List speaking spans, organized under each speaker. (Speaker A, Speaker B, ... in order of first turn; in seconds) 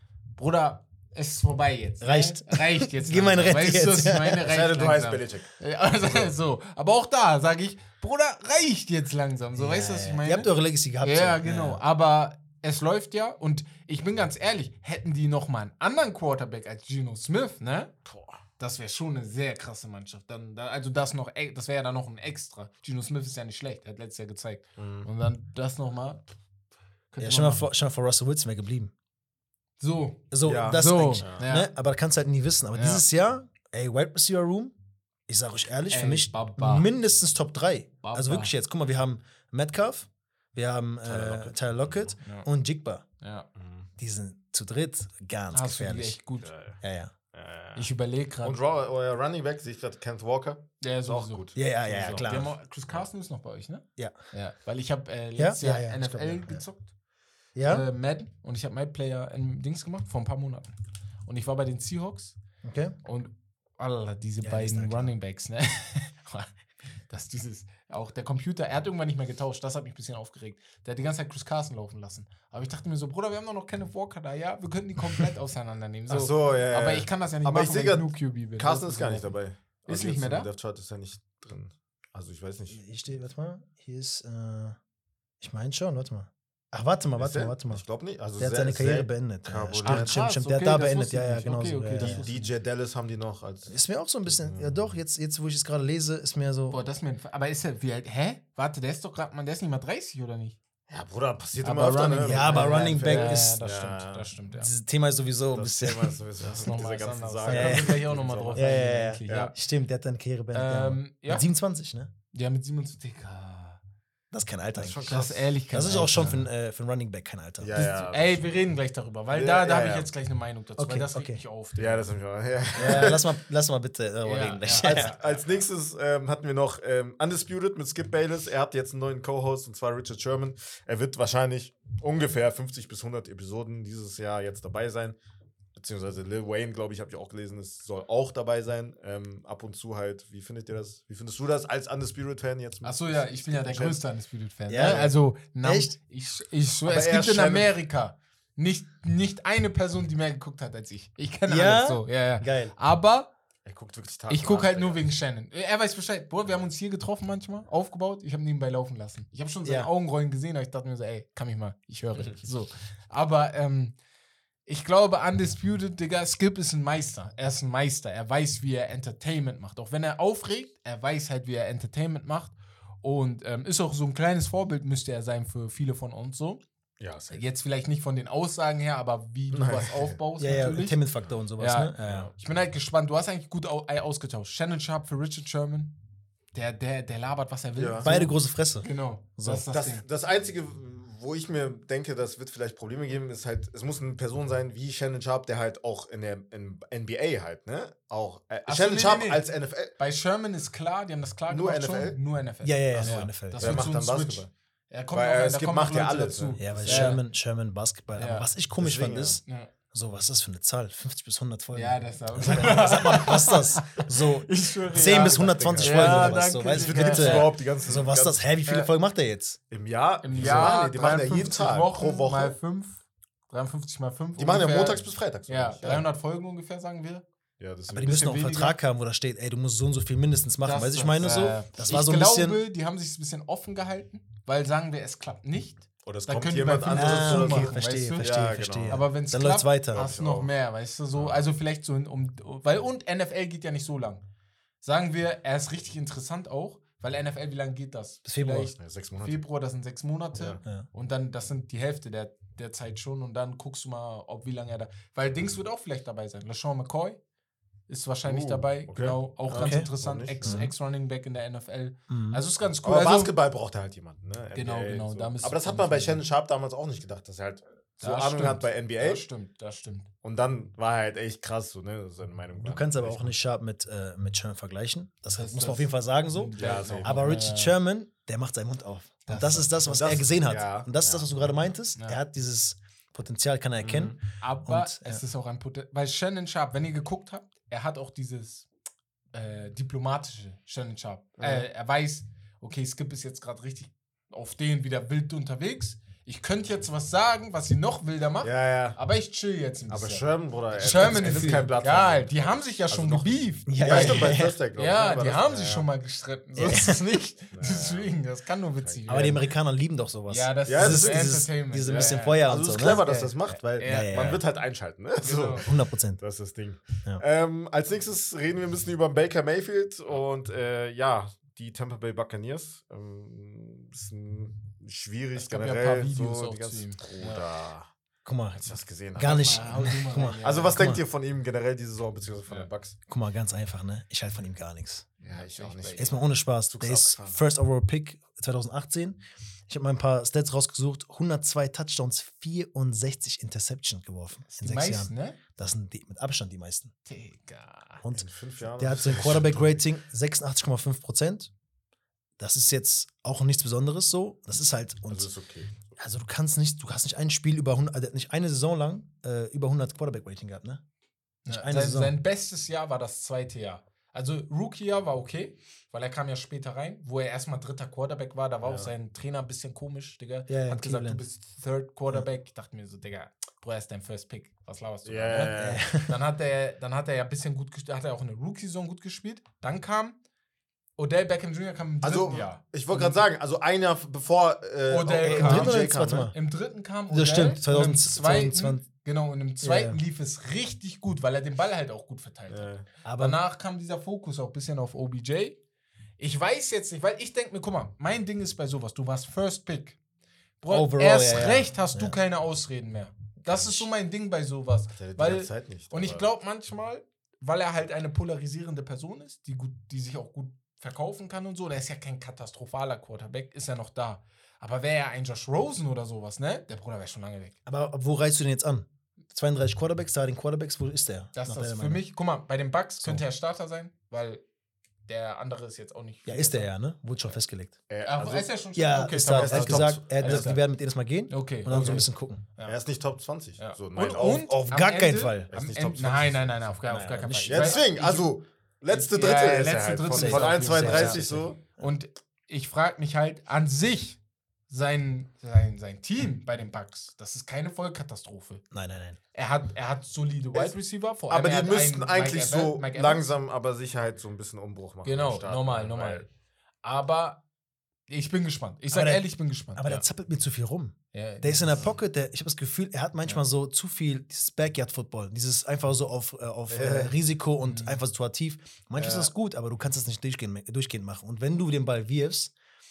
Speaker A: 0.4-17.9, 18.6-26.2, 27.1-27.7, 29.8-31.7, 32.7-33.0, 35.9-36.9, 38.0-38.5, 43.2-43.5, 45.5-46.5, 47.7-48.6, 50.8-56.9, 57.6-62.4, 63.0-66.5, 67.1-79.3, 79.9-80.5, 89.8-92.5, 96.7-100.6, 101.6-104.7, 106.4-109.5, 110.5-111.5, 112.3-113.8, 115.1-116.5, 118.1-122.1, 124.2-125.4, 142.8-153.3, 154.3-163.9, 164.6-176.6, 177.3-181.0, 181.6-186.0, 186.5-190.0, 198.7-199.4, 200.0-207.2, 208.2-208.5, 209.4-209.7, 211.7-217.6, 220.2-227.2, 228.0-228.8, 230.6-244.2, 244.8-257.2, 257.9-263.3, 264.5-266.2, 268.0-270.1, 275.3-277.8, 279.3-279.9, 284.4-288.7, 289.3-309.4, 310.3-314.3, 315.2-315.7, 325.4-327.4, 329.2-330.8, 335.2-336.2, 344.5-345.4, 347.1-348.0, 361.4-380.2, 381.0-383.2, 384.9-395.6, 396.2-400.0, 400.6-417.6, 421.3-424.4, 425.1-426.7, 428.0-430.6, 431.3-432.8, 433.6-438.3, 438.9-448.6, 449.3-453.2, 455.0-456.3, 456.8-457.4, 458.1-460.0, 461.1-461.9, 467.7-468.0
Speaker B: 2.0-4.4, 9.6-11.8, 27.2-28.9, 30.3-34.7, 35.3-43.0, 44.0-46.2, 46.8-47.1, 51.5-52.5, 55.4-56.6, 57.5-57.9, 62.6-62.9, 64.4-65.1, 82.7-84.8, 85.4-87.8, 88.4-92.3, 93.7-96.8, 102.2-103.6, 104.5-106.2, 107.5-112.1, 114.3-118.0, 120.8-121.4, 122.8-125.1, 144.7-145.9, 151.5-152.7, 159.6-159.9, 180.4-182.3, 188.0-189.6, 202.6-203.9, 206.6-219.6, 220.4-220.7, 227.9-232.6, 236.9-240.0, 248.2-248.7, 259.6-259.9, 260.4-260.7, 262.1-262.4, 272.6-285.2, 301.0-301.6, 303.7-304.6, 306.6-306.9, 309.1-313.0, 313.8-314.4, 315.5-316.2, 328.2-328.6, 329.1-331.0, 333.1-335.1, 336.0-346.9, 348.8-351.5, 352.4-355.3, 356.0-360.8, 361.5-362.1, 370.5-371.2, 375.5-376.1, 385.2-386.4, 387.1-388.8, 389.6-390.0, 393.0-393.4, 400.7-402.1, 403.4-403.9, 417.6-422.0, 426.2-427.7, 428.8-432.4, 434.4-435.5, 436.9-437.8, 440.1-441.9, 448.7-449.2, 458.9-472.5
Speaker C: 4.4-5.5, 18.0-18.4, 24.8-25.1, 30.4-31.4, 41.0-42.1, 43.5-43.9, 46.4-46.8, 47.3-47.9, 48.4-53.0, 76.1-82.8, 87.2-90.1, 92.0-94.9, 100.9-104.3, 105.5-108.7, 109.3-109.5, 114.7-115.5, 117.6-118.5, 119.3-120.1, 121.8-123.3, 124.7-135.2, 135.8-144.0, 144.8-145.1, 146.8-147.7, 153.6-155.0, 177.0-177.4, 179.5-180.2, 182.0-182.3, 187.8-188.1, 189.7-199.9, 201.5-202.2, 202.9-204.5, 205.1-207.2, 208.8-209.4, 215.0-218.9, 219.7-222.6, 224.4-226.1, 227.6-228.5, 231.2-231.6, 236.0-239.1, 239.9-240.5, 241.1-241.4, 248.8-249.4, 258.3-260.6, 262.8-269.2, 270.2-273.4, 276.6-277.3, 279.8-281.3, 283.8-284.2, 291.4-291.6, 298.4-299.0, 299.9-305.9, 306.6-308.1, 308.8-309.3, 310.6-327.9, 328.6-329.7, 330.4-333.0, 335.2-337.4, 348.1-349.8, 355.1-355.9, 368.6-368.9, 375.0-375.8, 382.0-386.3, 392.5-392.9, 404.9-406.2, 427.9-428.5, 429.3-430.5, 431.7-432.0, 432.6-434.5, 435.5-436.7, 437.5-441.6, 451.3-456.2, 466.7-467.1, 469.0-469.3